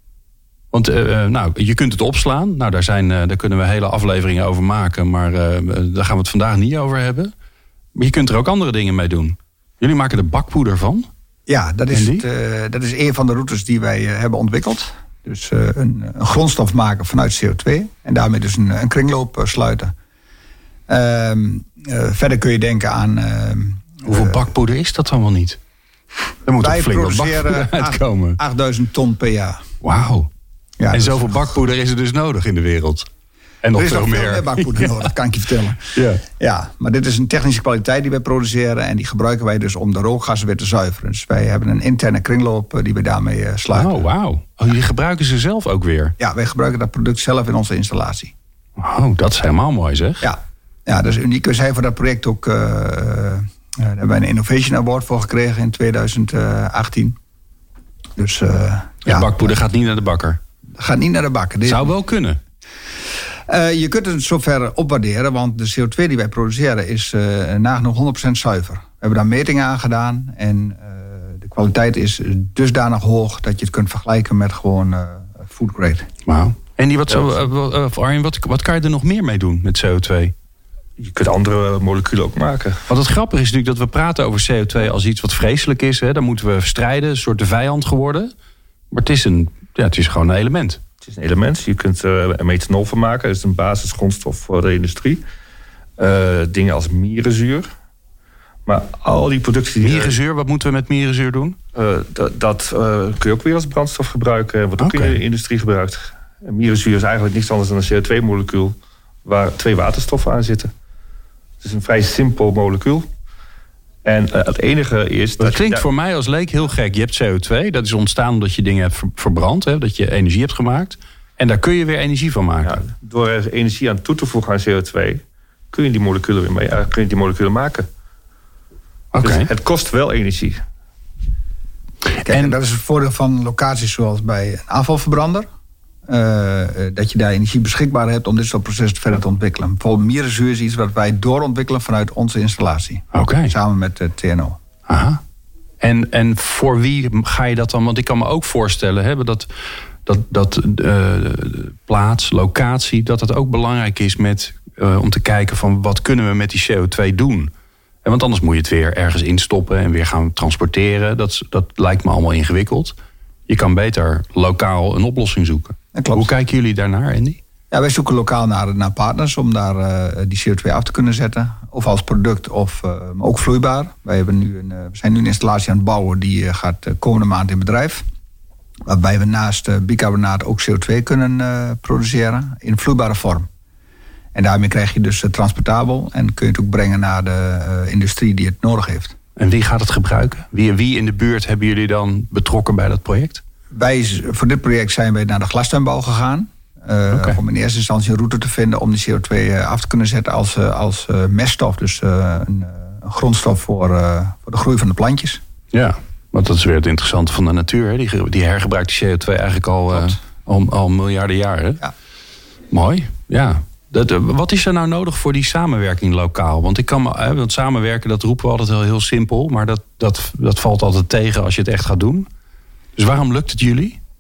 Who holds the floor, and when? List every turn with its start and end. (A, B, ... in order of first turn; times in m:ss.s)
0:00.7-0:07.3 A
0:08.0-0:11.1 A
0:11.5-0:19.9 B
0:11.9-0:12.2 A
0:20.9-0:24.4 B
0:24.0-0:25.6 A
0:26.4-0:28.4 A
0:26.6-0:29.6 B
0:29.8-0:30.3 A
0:30.8-0:31.6 B
0:30.9-0:33.1 A
0:33.6-0:35.1 A
0:33.7-0:44.1 B
0:35.9-0:36.2 A
0:43.7-0:46.1 A
0:46.2-0:48.3 B
0:48.8-0:50.3 A
0:50.2-0:57.2 B
0:58.2-0:59.5 B
0:59.0-1:00.4 A
1:00.8-1:01.9 B
1:01.6-1:02.4 A
1:03.5-1:16.1 B
1:16.2-1:20.4 A
1:21.0-1:22.8 C
1:22.9-1:28.3 A
1:28.9-1:30.8 A
1:31.0-1:35.2 C
1:36.0-1:37.7 C
1:38.6-1:40.2 C
1:39.8-1:41.6 A
1:41.8-1:50.7 C
1:44.8-1:45.2 A
1:51.6-1:53.1 C
1:54.0-1:55.9 C
1:55.4-2:02.8 A
2:02.6-2:05.2 C
2:05.7-2:07.9 C
2:09.1-2:09.5 A
2:09.2-2:10.6 C
2:12.2-2:12.6 A
2:12.2-2:15.5 B
2:16.1-2:24.6 B
2:23.1-2:23.5 A
2:24.9-2:25.2 A
2:25.8-2:29.5 A
2:30.0-2:37.5 A
2:38.0-2:43.0 A
2:43.5-2:47.4 A
2:45.9-2:46.3 B
2:47.7-2:58.0 B
2:58.9-3:03.5 B
3:04.4-3:09.1 B
3:09.4-3:13.4 A
3:13.7-3:25.4 B
3:17.1-3:17.4 A
3:25.7-3:31.8 A
3:32.7-3:42.3 A
3:43.0-3:44.0 A